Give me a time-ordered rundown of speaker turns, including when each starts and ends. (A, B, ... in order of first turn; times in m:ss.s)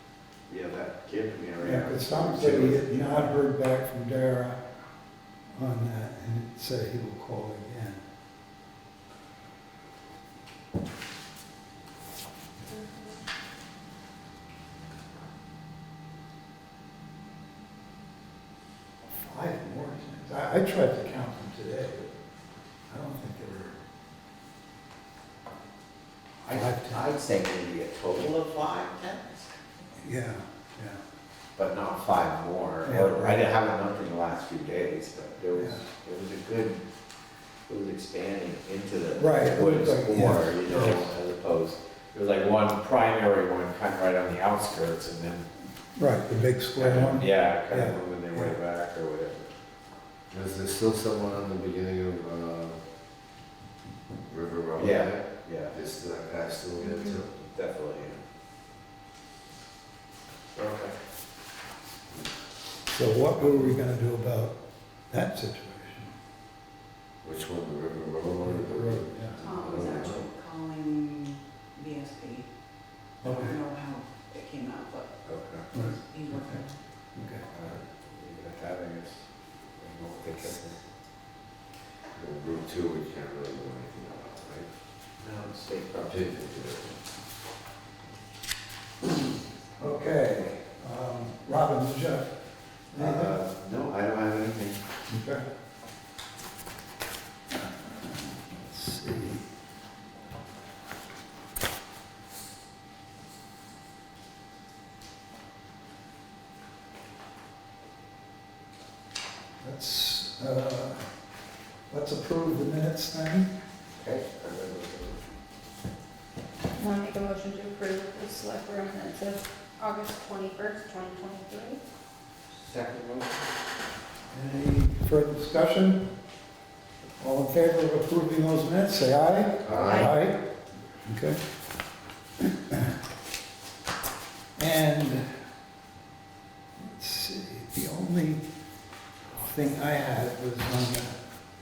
0:00.5-0:03.4 A
0:01.6-0:04.6 B
0:05.6-0:08.0 B
0:19.3-0:22.2 B
0:22.9-0:23.8 B
0:26.4-0:29.5 A
0:26.5-0:27.1 B
0:30.0-0:31.0 B
0:31.6-0:36.8 A
0:32.8-0:33.4 B
0:35.6-0:35.9 B
0:37.7-0:45.5 A
0:39.2-0:41.1 B
0:46.0-0:48.6 B
0:46.8-0:49.5 A
0:50.3-0:52.8 C
0:54.2-0:57.3 C
0:54.8-0:55.8 A
0:56.8-0:57.1 D
0:57.4-0:58.2 A
1:00.6-1:01.0 A
1:02.9-1:04.6 B
1:05.1-1:06.1 B
1:07.2-1:10.2 C
1:08.4-1:09.4 B
1:09.4-1:12.5 E
1:09.5-1:09.8 D
1:13.2-1:13.6 B
1:13.2-1:15.1 E
1:15.3-1:15.7 A
1:15.7-1:16.6 B
1:16.1-1:16.7 E
1:17.2-1:17.5 B
1:17.5-1:20.8 A
1:22.2-1:24.7 C
1:25.2-1:26.2 A
1:26.1-1:27.0 C
1:29.8-1:32.3 B
1:32.9-1:33.4 B
1:33.0-1:34.8 A
1:35.1-1:35.5 B
1:37.5-1:39.5 B
1:49.6-1:51.1 B
1:51.9-1:53.5 B
1:54.0-1:55.2 A
1:56.8-2:01.8 D
2:02.6-2:03.5 A
2:04.3-2:06.1 B
2:07.2-2:10.5 B
2:09.6-2:10.1 C
2:09.7-2:10.0 A
2:09.9-2:10.2 D
2:11.1-2:11.4 B
2:12.6-2:12.9 B
2:14.6-2:15.3 B
2:16.8-2:18.4 B
2:19.3-2:21.2 B